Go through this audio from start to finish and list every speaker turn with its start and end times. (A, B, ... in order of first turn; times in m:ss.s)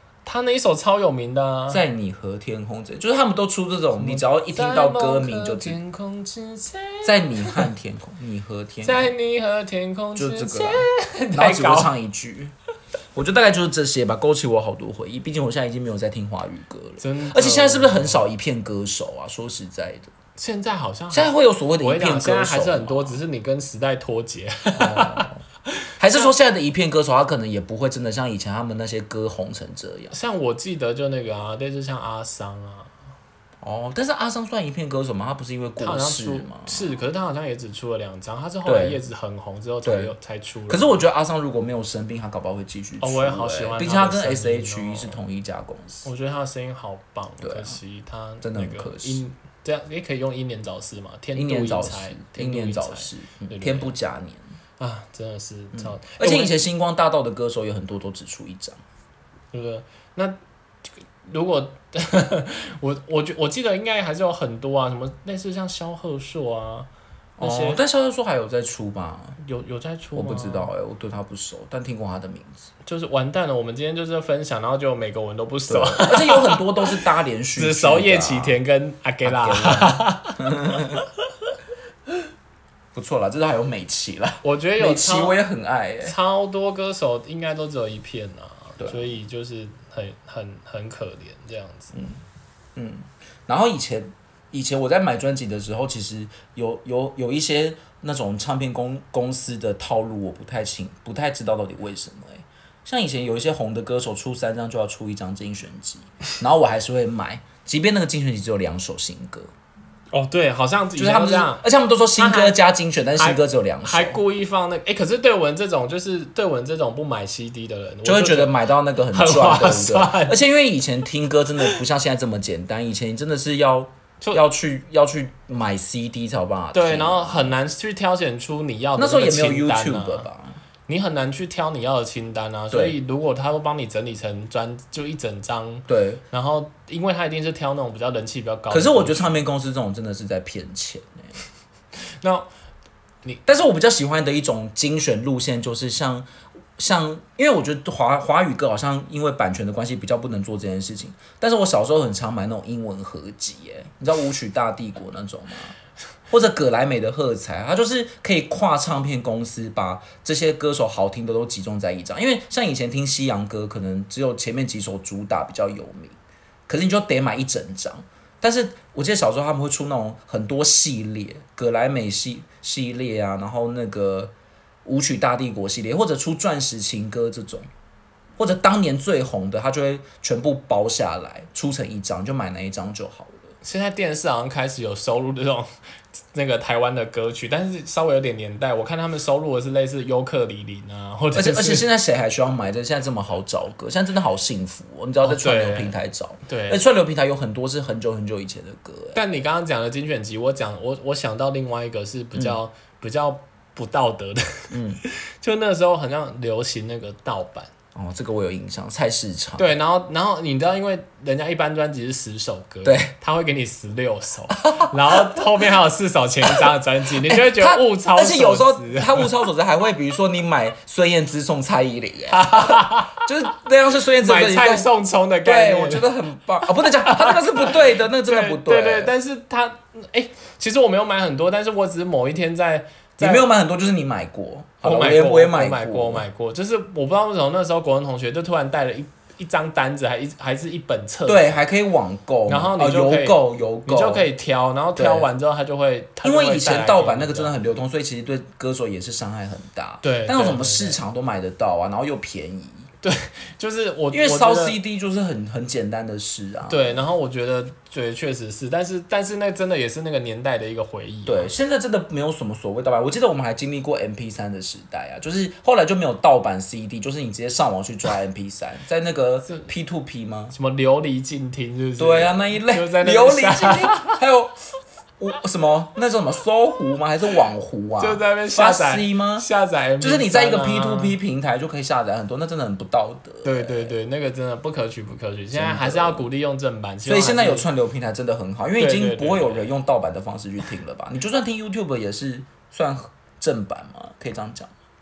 0:00.2-0:01.8 A
0:01.7-0:05.8 B
0:04.0-0:07.7 A
0:07.0-0:09.1 B
0:08.8-0:11.9 A
0:10.2-0:12.5 B
0:13.1-0:20.1 B
0:17.0-0:18.2 A
0:20.4-0:25.3 A
0:21.1-0:23.2 B
0:24.7-0:25.4 B
0:26.0-0:30.1 B
0:30.1-0:32.9 A
0:33.6-0:36.9 B
0:35.8-0:41.0 A
0:38.6-0:39.0 B
0:39.8-0:40.1 B
0:40.7-0:46.0 B
0:43.0-0:45.2 A
0:46.0-0:53.9 A
0:47.4-0:47.8 B
0:48.4-0:49.2 B
0:51.3-0:54.4 B
0:54.8-0:56.6 A
0:55.7-0:58.8 B
0:59.5-1:00.4 A
1:01.2-1:07.8 A
1:07.4-1:09.4 B
1:09.4-1:10.7 A
1:10.1-1:12.7 B
1:12.8-1:16.6 A
1:15.7-1:18.6 B
1:17.6-1:20.5 A
1:19.2-1:21.0 B
1:22.9-1:26.2 B
1:24.4-1:25.4 A
1:26.0-1:32.0 A
1:28.8-1:29.1 B
1:31.9-1:32.2 B
1:32.8-1:49.5 B
1:50.1-1:51.6 A
1:51.0-1:54.2 B
1:52.2-1:52.6 A
1:53.2-1:58.6 A
1:58.0-2:07.5 B
1:59.1-2:00.4 A
2:06.7-2:10.3 A
2:09.0-2:10.6 B
2:10.9-2:19.4 A
2:12.7-2:13.0 B
2:15.9-2:16.2 B
2:18.7-2:21.4 B
2:22.1-2:22.5 A
2:23.4-2:35.7 B
2:36.3-2:46.2 B
2:46.7-2:54.3 B
2:54.8-2:57.7 B
2:58.4-3:03.5 B
3:03.6-3:05.7 A
3:06.3-3:11.8 A
3:11.3-3:19.2 B
3:15.2-3:15.9 A
3:16.5-3:16.8 A
3:19.1-3:27.7 A
3:24.7-3:25.0 B
3:27.9-3:29.7 B
3:29.6-3:39.3 A
3:32.8-3:33.1 B
3:34.6-3:35.5 B
3:36.4-3:36.7 B
3:37.2-3:44.9 B
3:42.3-3:43.2 A
3:44.2-3:46.1 A
3:45.4-3:49.1 B
3:46.7-3:53.4 A
3:53.2-3:56.2 B
3:54.8-4:01.6 A
4:01.2-4:04.3 B
4:02.5-4:07.5 A
4:05.0-4:05.3 B
4:06.2-4:12.9 B
4:10.0-4:11.0 A
4:13.0-4:14.8 A
4:14.1-4:17.0 B
4:16.7-4:21.5 A
4:21.2-4:30.5 B
4:30.5-4:34.2 A
4:32.0-4:34.6 B
4:35.2-4:39.5 B
4:38.0-4:41.2 A
4:40.0-4:43.9 B
4:43.4-4:47.7 A
4:45.5-4:46.2 B
4:47.0-4:54.7 B
4:48.8-4:49.7 A